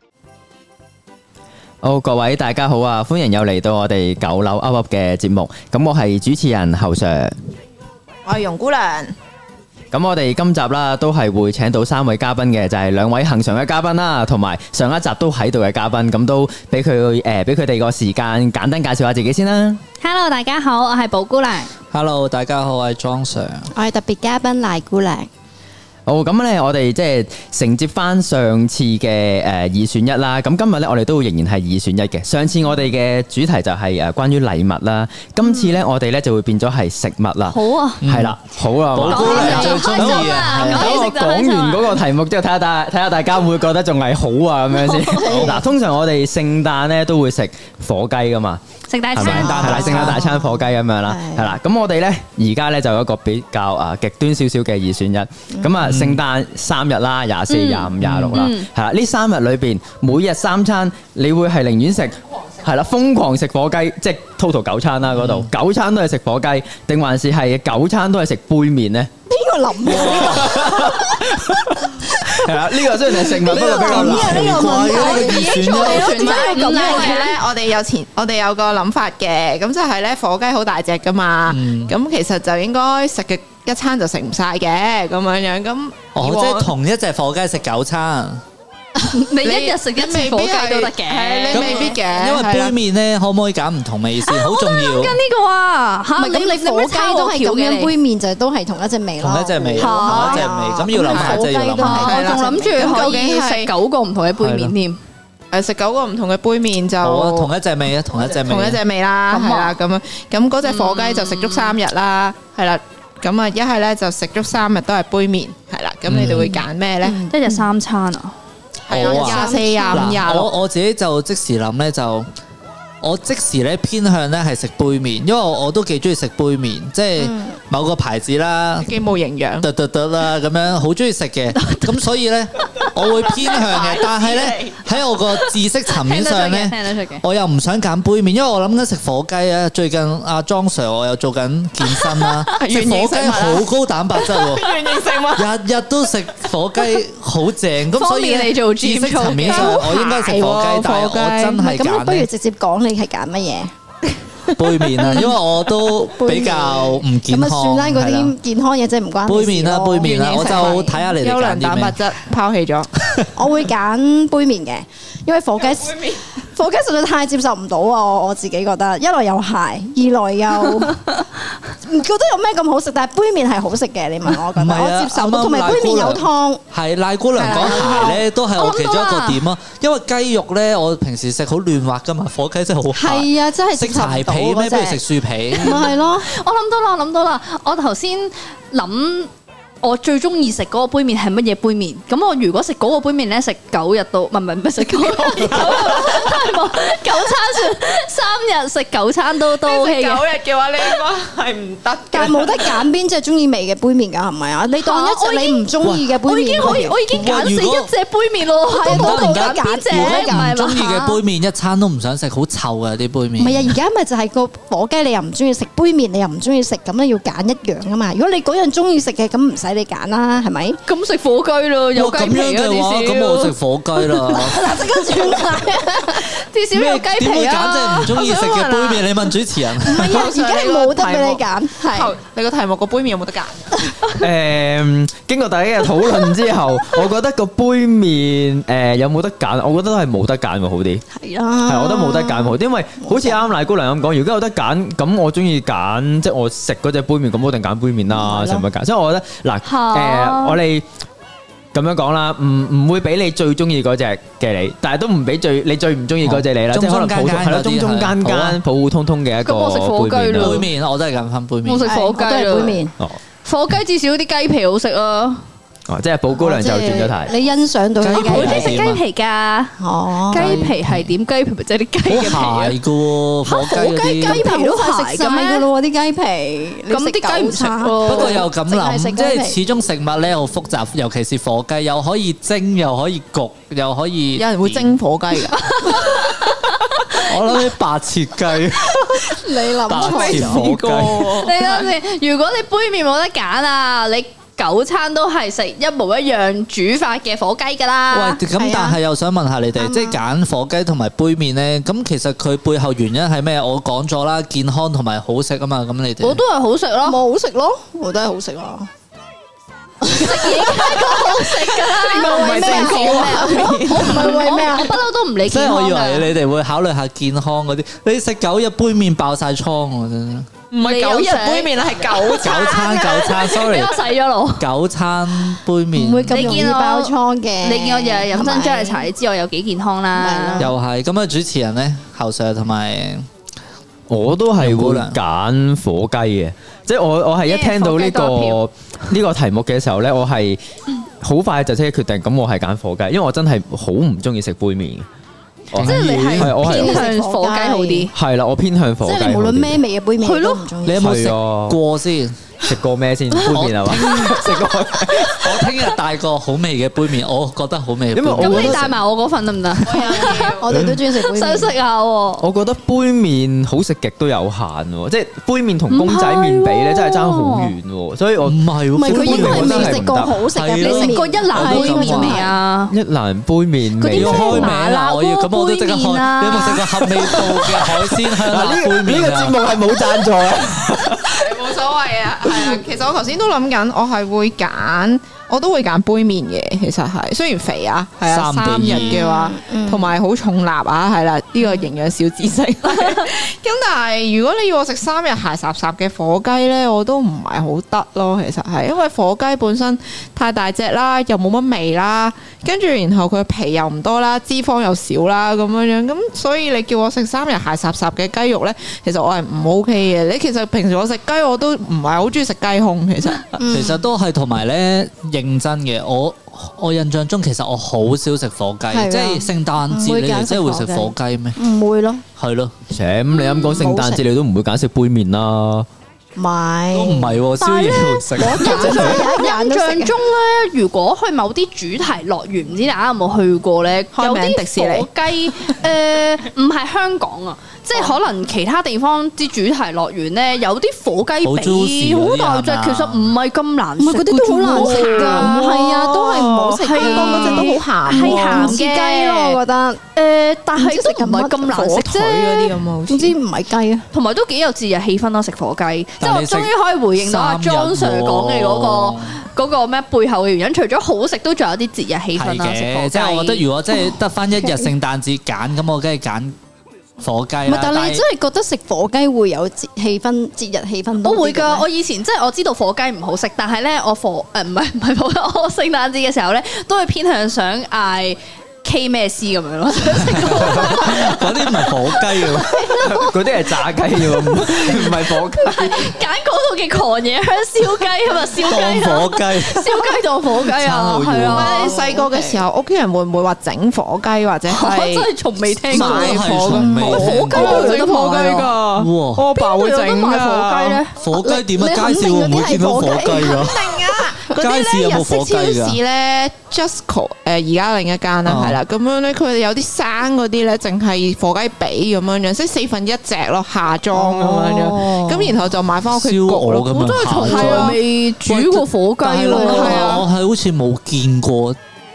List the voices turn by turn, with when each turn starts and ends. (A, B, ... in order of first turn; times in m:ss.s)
0:01.8-0:07.4 A
0:08.2-0:09.1 B
0:09.9-0:19.8 A
0:20.0-0:21.7 C
0:21.9-0:23.7 D
0:23.7-0:25.3 E
0:26.0-0:48.6 A
0:37.4-0:38.0 C
0:38.0-0:38.4 D
0:38.9-0:41.0 D
0:39.1-0:42.0 C
0:45.1-0:45.6 D
0:48.9-0:50.1 C
0:49.1-1:09.1 A
0:49.2-0:50.2 D
0:49.3-0:51.5 E
0:55.8-0:56.2 D
0:57.5-0:58.7 C
0:58.0-0:58.4 D
1:05.2-1:05.5 D
1:09.3-1:10.9 E
1:09.8-1:10.5 D
1:09.8-1:14.8 A
1:13.4-1:16.6 D
1:13.5-1:17.2 E
1:14.6-1:17.3 C
1:15.4-1:26.7 B
1:21.5-1:21.9 D
1:26.1-1:28.4 D
1:29.0-1:31.9 C
1:29.4-1:32.7 B
1:31.5-1:35.2 D
1:34.2-1:38.0 C
1:36.2-1:42.7 E
1:39.2-1:42.4 D
1:39.8-1:45.0 C
1:41.3-1:43.7 B
1:44.4-1:44.7 D
1:45.5-1:47.5 B
1:47.0-1:48.8 D
1:48.2-1:57.6 B
1:49.3-1:49.8 C
1:50.6-1:51.7 C
1:56.1-1:56.6 D
1:57.3-1:58.3 C
1:58.9-2:00.5 B
1:58.9-2:02.3 D
1:59.4-2:00.0 E
2:03.0-2:08.9 D
2:08.8-2:09.7 B
2:09.6-2:24.8 D
2:11.6-2:12.0 C
2:13.5-2:14.8 B
2:15.9-2:17.2 C
2:22.6-2:25.5 B
2:25.3-2:32.3 D
2:27.9-2:29.9 C
2:29.5-2:31.7 B
2:31.7-2:33.7 E
2:34.5-2:38.3 D
2:34.9-2:35.3 B
2:36.2-2:40.9 E
2:39.2-2:42.0 D
2:39.9-2:43.0 B
2:43.4-2:45.9 E
2:45.6-2:46.2 B
2:46.5-2:51.2 E
2:51.8-2:56.6 E
2:54.2-3:05.9 D
2:57.3-2:58.2 B
2:57.4-2:59.4 C
3:03.0-3:05.0 E
3:05.6-3:09.3 C
3:09.8-3:20.2 C
3:15.2-3:16.3 B
3:19.6-3:22.9 B
3:22.1-3:26.9 E
3:24.7-3:31.2 C
3:25.8-3:27.9 D
3:28.8-3:33.8 D
3:28.8-3:30.5 E
3:33.4-3:40.8 E
3:40.8-3:43.5 C
3:41.9-3:44.9 D
3:44.2-3:48.1 C
3:44.6-3:45.8 E
3:46.7-3:50.2 D
3:48.0-3:49.2 B
3:49.8-3:52.1 E
3:49.9-3:53.8 B
3:54.2-4:01.0 A
4:01.1-4:03.4 E
4:01.6-4:10.8 A
4:08.1-4:08.7 E
4:09.6-4:10.6 C
4:11.7-4:20.7 A
4:16.2-4:18.6 D
4:19.4-4:20.7 C
4:20.3-4:21.9 D
4:21.6-4:22.8 C
4:21.8-4:22.9 E
4:23.4-4:25.4 C
4:25.9-4:27.3 A
4:26.3-4:28.8 E
4:28.0-4:29.0 D
4:28.2-4:32.8 C
4:29.8-4:30.7 E
4:30.3-4:31.1 D
4:32.1-4:34.4 D
4:33.4-4:35.7 C
4:34.2-4:39.6 E
4:36.9-4:38.5 C
4:38.0-4:45.0 D
4:44.3-4:45.6 B
4:45.6-4:46.5 C
4:47.1-4:49.3 D
4:49.9-4:51.4 D
4:49.9-4:51.9 B
4:50.0-4:50.5 E
4:51.3-4:58.4 C
4:58.1-5:06.4 D
4:58.6-4:59.0 E
4:59.8-5:00.2 E
5:06.2-5:07.2 C
5:07.0-5:08.9 E
5:10.1-5:16.3 C
5:11.9-5:14.7 B
5:12.2-5:14.8 E
5:15.4-5:20.5 D
5:20.7-5:24.0 B
5:20.8-5:24.7 C
5:22.4-5:23.9 D
5:24.6-5:26.6 D
5:26.0-5:29.1 E
5:26.3-5:30.7 C
5:30.2-5:30.7 E
5:30.6-5:33.3 D
5:34.1-5:40.6 A
5:34.6-5:35.2 D
5:37.4-5:38.6 C
5:41.2-5:45.0 A
5:45.7-5:47.0 A
5:45.7-5:46.6 D
5:45.8-5:48.1 C
5:46.6-5:48.0 E
5:48.1-5:49.8 A
5:49.0-5:51.0 E
5:50.2-5:50.7 C
5:50.8-5:52.4 D
5:50.9-5:51.8 A
5:52.6-5:55.7 A
5:53.4-5:54.6 D
5:53.9-5:54.5 C
5:55.1-5:55.7 C
5:55.2-5:59.0 D
5:58.1-5:58.9 A
5:58.4-6:02.4 C
5:59.8-6:01.0 B
6:00.6-6:01.7 E
6:02.4-6:10.4 A
6:05.9-6:07.7 C
6:08.4-6:12.4 D
6:08.9-6:12.5 E
6:10.8-6:12.9 C
6:12.9-6:14.8 A
6:14.0-6:17.4 C
6:14.1-6:19.6 D
6:17.2-6:21.3 A
6:21.3-6:53.5 B
6:28.2-6:29.2 D
6:28.9-6:30.1 E
6:53.6-6:53.9 E
6:53.6-7:01.6 D
6:58.9-7:02.2 E
7:02.4-7:02.7 D
7:02.9-7:05.9 A
7:03.8-7:04.2 E
7:06.4-7:07.3 E
7:06.9-7:09.3 D
7:07.6-7:25.6 C
7:08.4-7:10.2 E
7:14.1-7:15.7 B
7:21.4-7:23.3 D
7:24.0-7:30.0 E
7:24.7-7:29.4 B
7:26.8-7:29.6 C
7:30.1-7:32.7 C
7:30.8-7:31.5 E
7:31.7-7:33.4 B
7:33.1-7:34.0 E
7:34.1-7:43.6 C
7:36.2-7:39.4 D
7:42.3-7:46.5 D
7:47.2-7:48.2 D
7:47.7-7:51.9 E
7:51.2-8:12.2 C
8:00.3-8:02.7 D
8:02.9-8:06.1 A
8:08.6-8:10.0 D
8:10.5-8:11.9 D
8:11.5-8:15.3 B
8:14.7-8:18.7 C
8:15.8-8:21.0 B
8:15.9-8:18.0 D
8:18.9-8:19.5 D
8:19.5-8:21.2 C
8:21.2-8:26.0 D
8:21.7-8:23.5 E
8:23.0-8:38.0 B
8:28.4-8:28.8 D
8:34.1-8:35.5 E
8:36.0-8:41.8 D
8:37.0-8:40.2 C
8:39.5-8:40.3 B